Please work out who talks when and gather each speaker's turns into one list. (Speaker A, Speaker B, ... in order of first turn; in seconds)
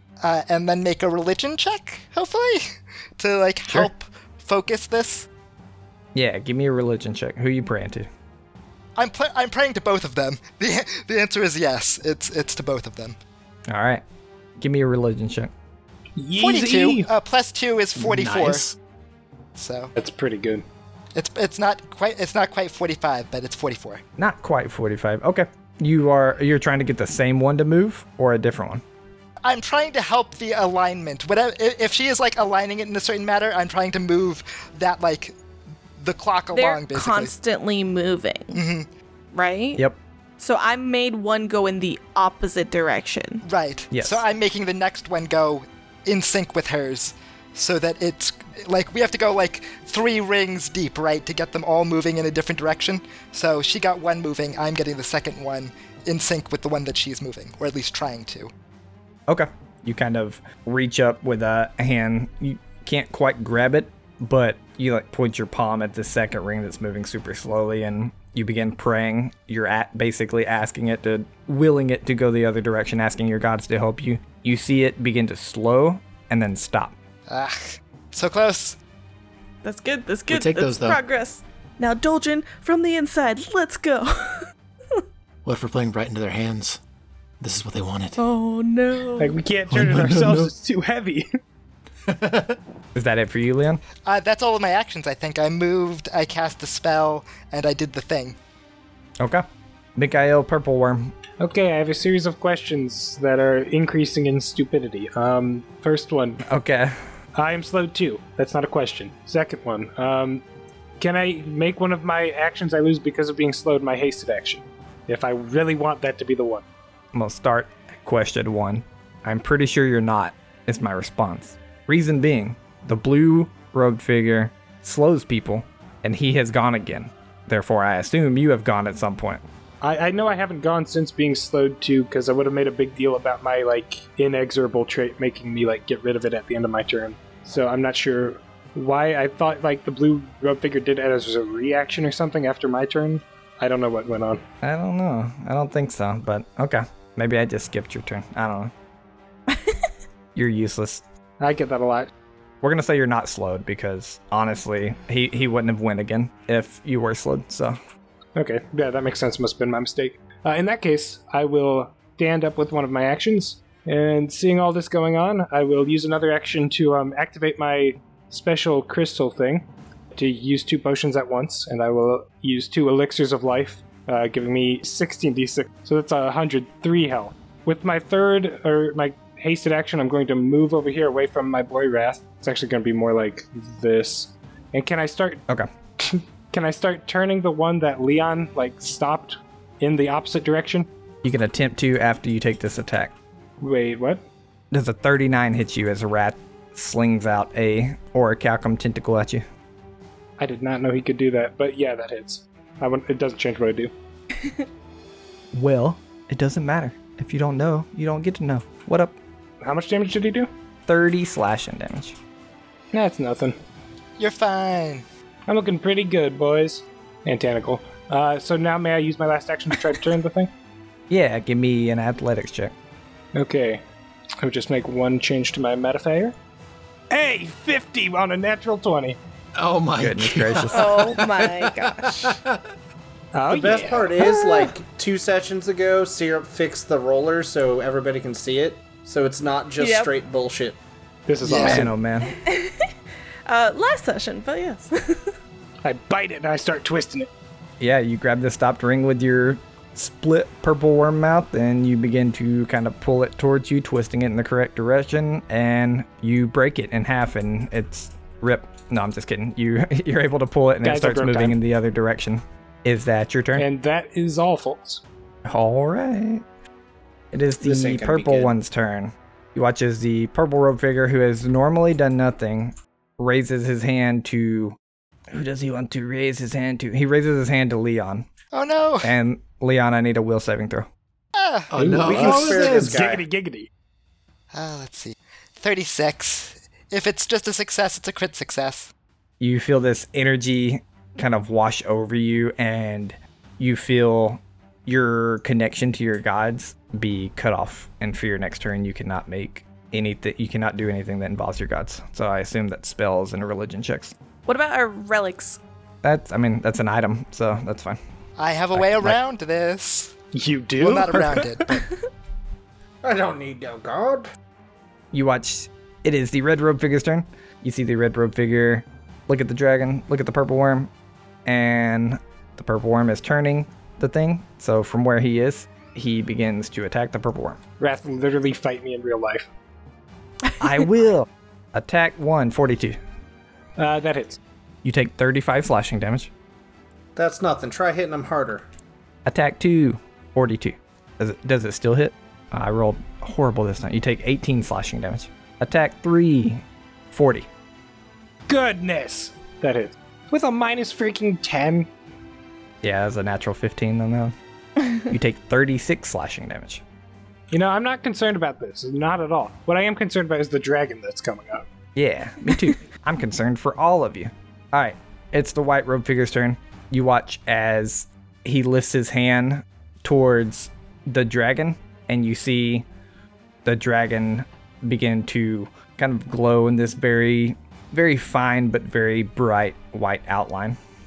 Speaker A: 0.2-5.3, 8.9-13.2, 16.4-18.6, 19.6-19.9, 21.1-24.0, 29.4-35.3, 36.0-37.3, 38.5-38.9, 43.4-58.5, 77.3-78.8, 94.0-98.3, 214.2-215.0, 241.4-241.9, 278.5-279.1, 281.3-281.7, 284.5-288.9, 308.4-310.1, 310.8-311.9
Speaker B: 6.1-8.1, 13.7-14.0, 14.6-15.5, 24.2-28.8, 43.9-44.2, 59.3-77.0, 92.9-93.8, 99.2-99.4, 100.0-101.1, 106.4-107.0, 117.1-129.4, 144.6-148.7, 150.3-151.0, 152.6-157.8, 191.2-193.1, 194.7-199.4, 205.5-209.2, 210.9-212.2, 221.1-222.7, 230.0-230.9, 241.6-242.3, 247.8-263.7, 265.4-266.4, 267.3-274.8, 275.3-278.3, 279.0-280.9, 289.4-304.1, 306.0-308.0, 308.7-309.2, 315.1-320.9, 321.4-327.6, 330.6-333.0, 334.8-336.3, 339.2-347.5, 352.8-354.3, 355.1-356.8, 361.9-372.9, 373.6-380.8
Speaker C: 16.2-17.1, 19.9-20.6, 89.2-91.2, 101.4-106.4, 107.3-110.4, 111.0-116.6, 129.8-144.4, 151.4-152.1, 158.3-185.4, 186.0-190.9, 193.6-194.2, 200.4-203.9, 209.6-210.5, 212.9-213.6, 215.5-220.5, 223.3-223.8, 224.4-226.3, 227.1-229.2, 233.3-234.6, 241.3-241.9, 245.8-247.3, 260.8-261.6, 263.6-265.0, 281.8-283.7, 310.3-311.8, 327.8-329.5, 333.8-334.4, 348.5-351.9, 357.5-361.6
Speaker D: 17.9-18.8, 80.3-81.0, 85.4-86.8, 87.4-88.2, 89.7-90.5, 92.1-92.6, 229.6-232.6, 281.7-282.9
Speaker E: 36.5-38.6, 39.3-39.8, 40.4-43.4, 79.6-85.0, 88.2-89.3, 149.5-149.8, 230.7-232.4, 239.8-240.1, 242.2-242.9, 243.5-245.3, 304.4-305.6
Speaker F: 233.5-240.8, 267.6-268.5, 282.0-283.2, 313.0-314.3, 337.1-338.6